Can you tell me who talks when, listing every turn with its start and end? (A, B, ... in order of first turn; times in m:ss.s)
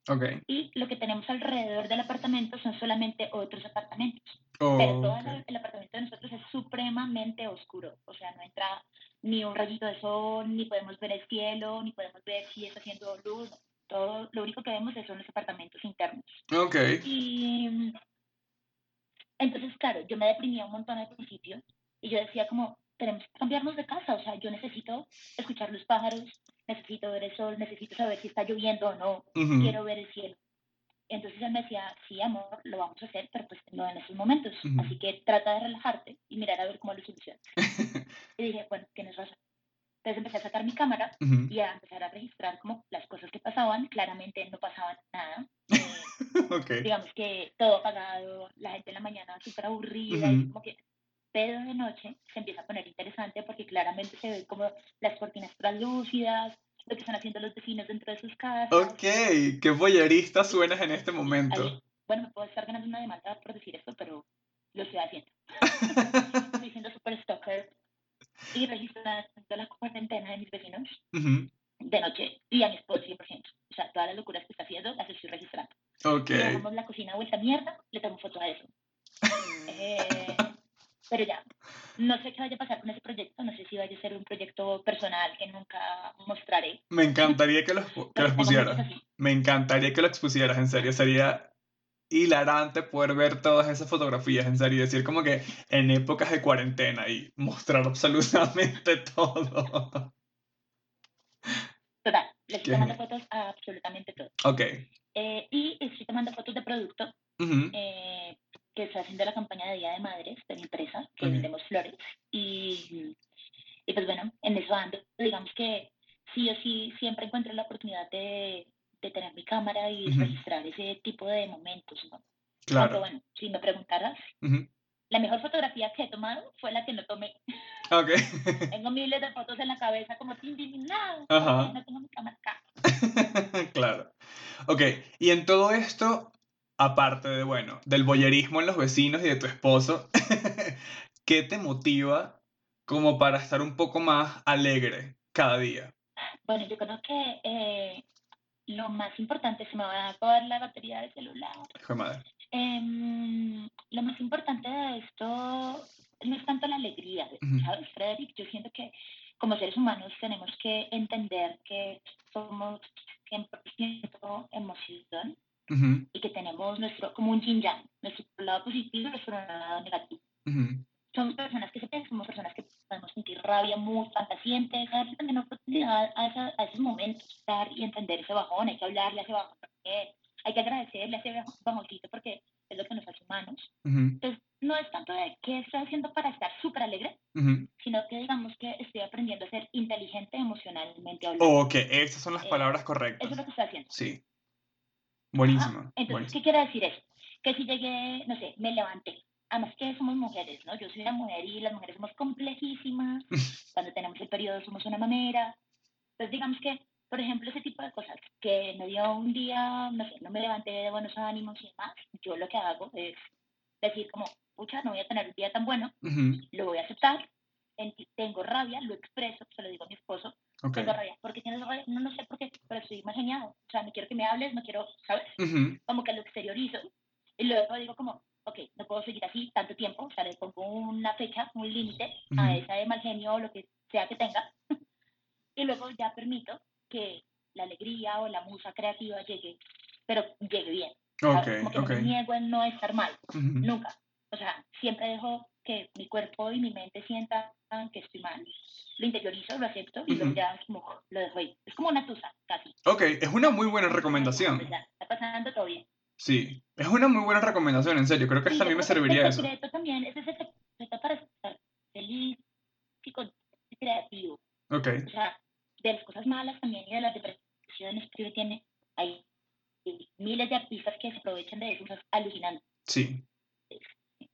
0:00.1-0:00.4 A
0:00.5-0:16.4 B
0:04.6-0:05.4 A
0:16.5-0:17.0 A
0:17.0-0:18.0 B
0:19.4-0:30.4 B
0:29.4-0:29.8 A
0:31.1-0:37.6 B
0:34.6-0:34.9 A
0:37.6-0:38.1 A
0:38.4-0:39.4 B
0:40.0-0:46.1 B
0:41.2-0:41.5 A
0:45.7-0:46.9 A
0:46.8-0:50.8 B
0:50.1-0:50.5 A
0:51.3-0:59.0 B
0:58.7-1:01.8 A
1:01.5-1:07.7 B
1:05.7-1:06.3 A
1:08.5-1:11.0 B
1:11.1-1:11.5 A
1:11.8-1:15.8 B
1:16.0-1:16.6 A
1:16.3-1:18.7 B
1:19.6-1:20.5 B
1:20.1-1:20.5 A
1:21.1-1:21.4 B
1:22.0-1:27.4 B
1:26.9-1:31.5 A
1:28.2-1:29.0 B
1:32.1-1:40.1 A
1:42.0-1:44.3 B
1:42.6-1:43.0 A
1:44.4-1:44.8 A
1:45.1-1:47.2 B
1:47.4-1:47.8 A
1:47.7-1:53.2 B
1:51.2-1:51.5 A
1:53.9-2:02.2 B
2:00.1-2:00.4 A
2:02.7-2:03.0 A
2:02.7-2:04.3 B
2:04.4-2:04.7 A
2:05.1-2:07.9 B
2:07.9-2:08.7 A
2:08.7-2:12.6 B
2:11.3-2:11.8 A
2:12.8-2:14.1 A
2:14.6-2:25.9 A
2:26.4-2:28.0 B
2:28.7-2:31.7 B
2:31.8-2:32.2 A
2:32.5-2:45.4 B
2:37.4-2:37.7 A
2:45.7-2:46.1 A
2:46.1-2:50.2 B
2:50.5-2:50.9 A
2:51.1-3:07.2 B
3:03.8-3:04.2 A
3:07.4-3:07.7 A
3:07.8-3:11.6 B
3:11.4-3:13.4 A
3:12.4-3:13.9 B
3:13.9-3:14.2 A
3:15.3-3:16.3 A
3:15.4-3:25.6 B
3:26.2-3:33.3 B
3:33.8-3:54.6 B
3:36.0-3:36.4 A
3:40.6-3:40.9 A
3:45.4-3:45.8 A
3:52.3-3:52.6 A
3:55.6-4:12.8 B
4:01.2-4:02.1 A
4:03.3-4:03.7 A
4:10.1-4:10.4 A
4:12.9-4:14.7 A
4:13.8-4:15.9 B
4:16.2-4:19.5 A
4:18.5-4:22.4 B
4:23.0-4:24.4 B
4:24.7-4:25.1 A
4:25.1-4:29.2 B
4:29.8-4:32.6 B
4:32.9-4:33.2 A
4:33.7-4:34.0 B